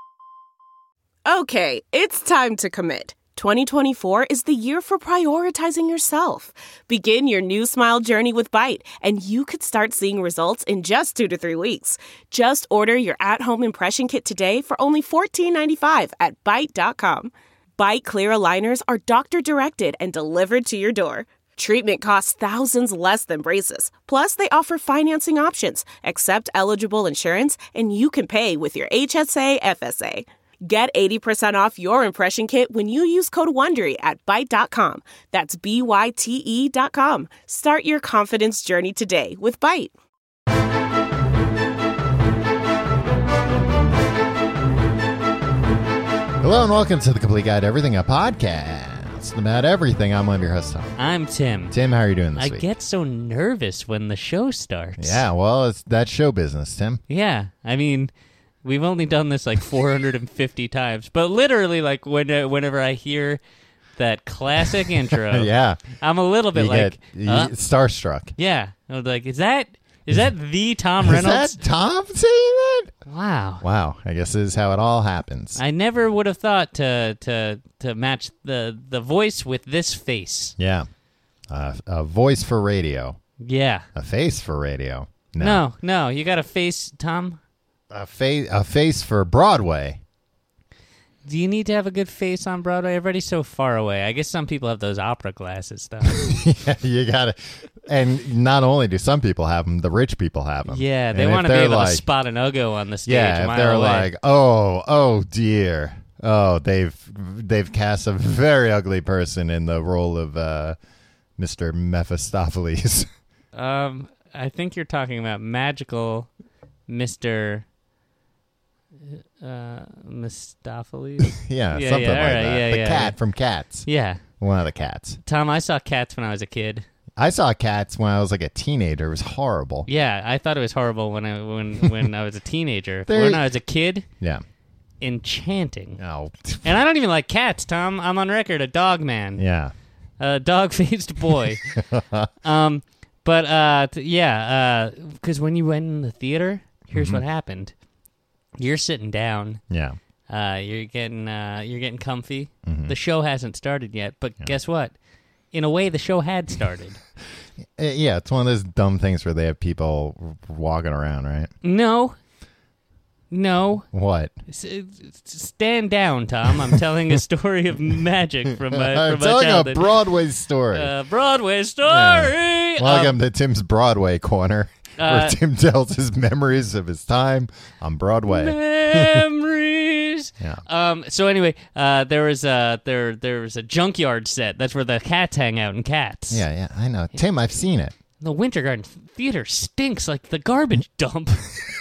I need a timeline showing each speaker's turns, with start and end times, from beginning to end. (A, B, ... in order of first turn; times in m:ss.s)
0:01.2-0:39.9 A
0:46.4-0:51.0 B
0:51.0-0:51.7 C
0:51.7-0:52.6 B
0:52.4-0:55.2 C
0:55.0-0:57.0 B
0:57.1-0:58.1 C
0:58.6-1:03.4 C
1:04.0-1:07.5 C
1:04.6-1:05.9 B
1:06.5-1:08.3 B
1:08.4-1:11.6 C
1:11.0-1:12.9 B
1:13.0-1:13.6 C
1:13.6-1:15.6 B
1:15.6-1:20.5 C
1:20.6-1:20.9 B
1:21.5-1:23.2 B
1:23.4-1:23.9 C
1:23.9-1:25.6 B
1:25.4-1:27.4 C
1:27.9-1:30.0 B
1:31.2-1:36.3 C
1:36.1-1:42.0 B
1:40.6-1:44.1 C
1:43.0-1:50.8 B
1:51.4-1:53.1 B
1:53.5-1:56.3 C
1:56.9-1:57.6 C
1:59.0-2:03.2 C
2:01.2-2:03.9 B
2:03.8-2:04.2 C
2:04.4-2:05.2 B
2:05.2-2:06.8 C
2:07.2-2:09.9 B
2:09.9-2:14.0 C
2:13.1-2:13.4 B
2:15.0-2:16.0 C
2:16.0-2:16.6 B
2:16.6-2:19.4 C
2:19.4-2:19.7 B
2:20.2-2:21.8 C
2:21.8-2:22.3 B
2:22.4-2:27.7 C
2:26.9-2:27.2 B
2:28.6-2:29.6 C
2:29.7-2:30.0 B
2:30.3-2:34.9 C
2:32.6-2:32.9 B
2:35.5-2:37.0 C
2:37.8-2:41.5 B
2:41.6-2:42.2 C
2:43.3-2:43.9 C
2:43.9-2:44.3 B
2:44.5-2:49.9 C
2:48.7-2:50.9 B
2:50.7-2:53.2 C
2:51.8-2:59.2 B
2:55.0-2:55.4 C
2:58.3-3:06.4 C
3:06.3-3:08.0 B
3:08.2-3:11.5 C